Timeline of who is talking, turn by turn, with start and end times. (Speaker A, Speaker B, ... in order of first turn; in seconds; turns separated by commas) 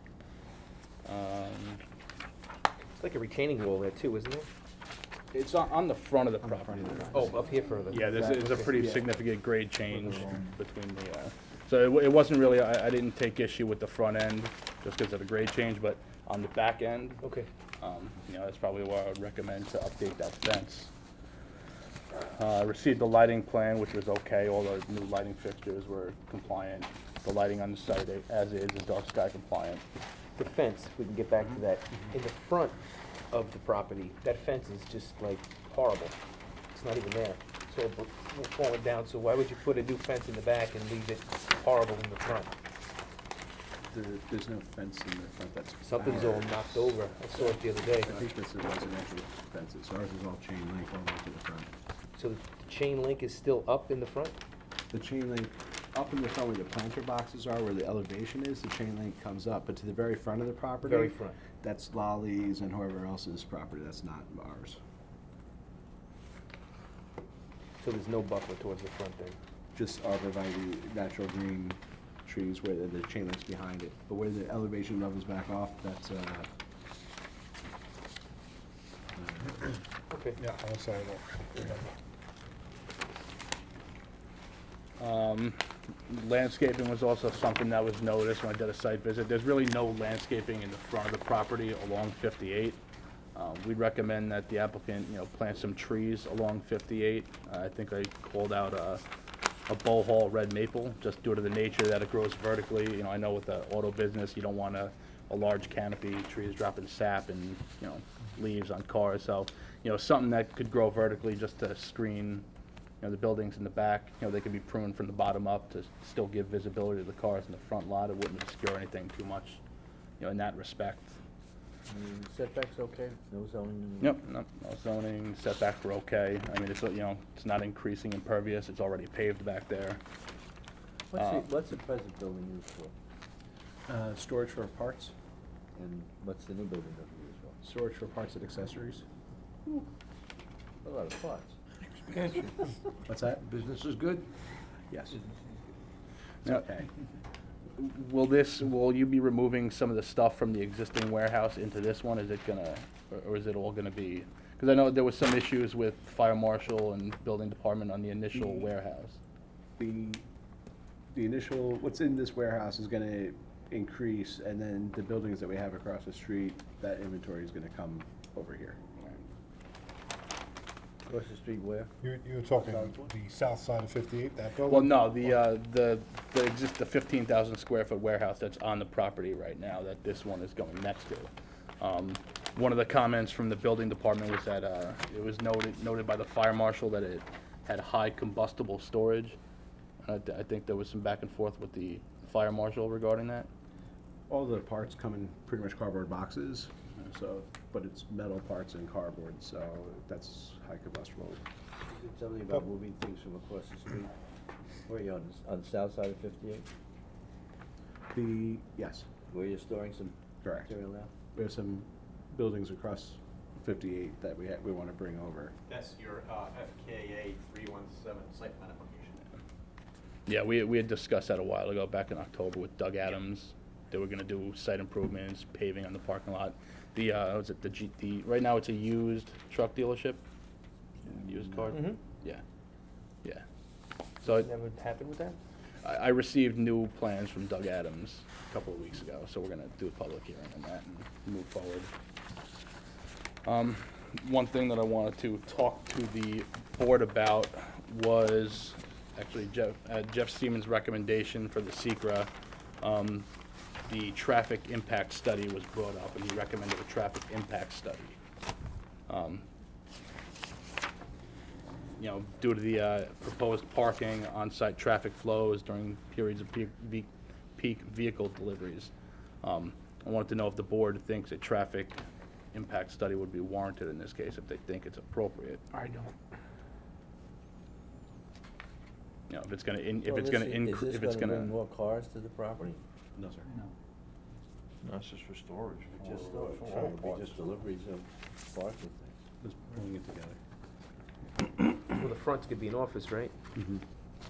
Speaker A: 1.0-1.8, Speaker B: 3.0-4.5, Speaker A: 5.3-7.3, Speaker C: 6.4-7.4, Speaker B: 7.1-8.8, Speaker A: 7.9-17.2, Speaker C: 7.9-9.1, Speaker B: 17.2-17.5, Speaker A: 17.8-20.9, Speaker A: 22.2-29.8, Speaker B: 30.4-32.8, Speaker B: 33.3-36.2, Speaker B: 36.7-42.5, Speaker C: 43.9-51.7, Speaker B: 45.8-48.2, Speaker B: 52.1-54.4, Speaker C: 54.9-64.8, Speaker B: 60.8-61.4, Speaker B: 67.8-69.4, Speaker C: 69.7-76.5, Speaker C: 79.2-79.7, Speaker B: 80.1-80.4, Speaker D: 80.4-81.9, Speaker A: 85.0-92.8, Speaker A: 93.3-99.0, Speaker A: 99.7-112.4, Speaker A: 113.0-119.6, Speaker A: 120.2-121.2, Speaker E: 121.9-124.2, Speaker A: 124.0-130.0, Speaker E: 131.1-132.9, Speaker A: 131.1-131.5, Speaker C: 133.9-135.1, Speaker E: 135.8-137.6, Speaker C: 137.6-139.0, Speaker E: 140.8-141.5, Speaker F: 142.1-142.5, Speaker C: 143.1-143.4, Speaker F: 143.4-144.3, Speaker C: 144.9-145.2, Speaker C: 146.4-146.9, Speaker A: 147.8-159.2, Speaker C: 158.3-158.7, Speaker C: 159.8-160.2, Speaker C: 161.1-168.8, Speaker E: 171.1-171.9, Speaker D: 172.0-175.4, Speaker E: 172.5-173.1, Speaker A: 174.7-189.4, Speaker A: 190.0-193.5, Speaker C: 194.3-201.4, Speaker E: 201.9-204.1, Speaker E: 204.9-206.7, Speaker C: 208.1-209.1, Speaker E: 209.3-211.1, Speaker C: 210.4-210.7, Speaker C: 211.3-215.5, Speaker G: 215.7-219.2, Speaker A: 220.3-230.2, Speaker A: 231.1-232.4, Speaker B: 231.7-232.0, Speaker A: 234.2-234.5, Speaker B: 234.2-235.4, Speaker A: 235.8-241.9, Speaker A: 243.4-252.3, Speaker A: 252.8-253.3, Speaker A: 253.9-258.2, Speaker A: 259.1-259.4, Speaker A: 262.0-268.9, Speaker A: 269.4-272.0, Speaker A: 272.5-275.6, Speaker B: 275.7-276.1, Speaker A: 279.3-281.5, Speaker E: 280.0-282.8, Speaker C: 283.1-283.5, Speaker F: 284.8-287.4, Speaker E: 286.0-289.1, Speaker C: 289.4-290.4, Speaker B: 291.9-293.3, Speaker C: 293.6-293.8